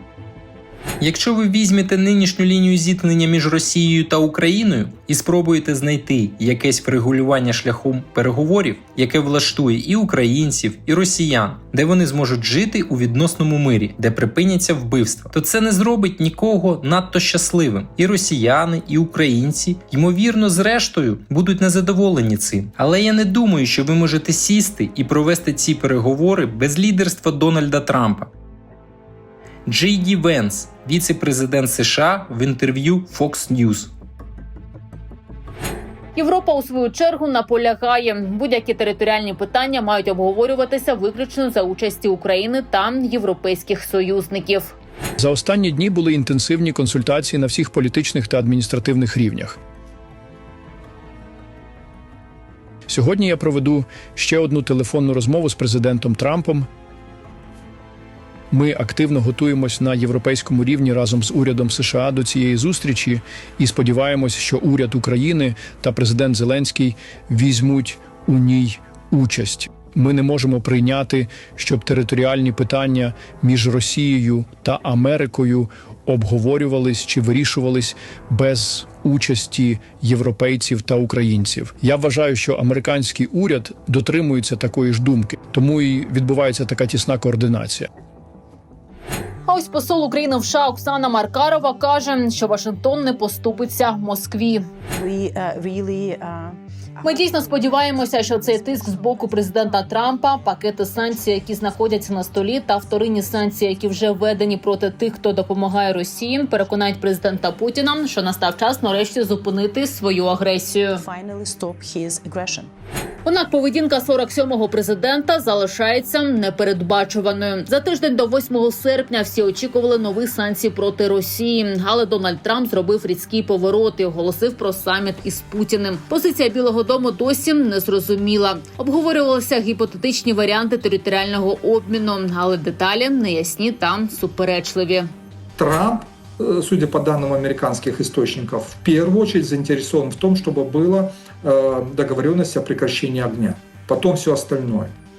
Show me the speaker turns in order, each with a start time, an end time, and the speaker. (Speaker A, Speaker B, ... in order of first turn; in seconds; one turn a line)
Speaker A: 1.0-28.3
Speaker A: 29.7-33.9
Speaker B: 36.2-44.8
Speaker C: 45.2-49.6
Speaker C: 52.9-56.7
Speaker C: 58.5-87.9
Speaker B: 89.5-94.7
Speaker D: 94.9-99.8
Speaker B: 97.0-111.0
Speaker D: 111.0-112.7
Speaker B: 113.3-135.1
Speaker E: 135.6-144.9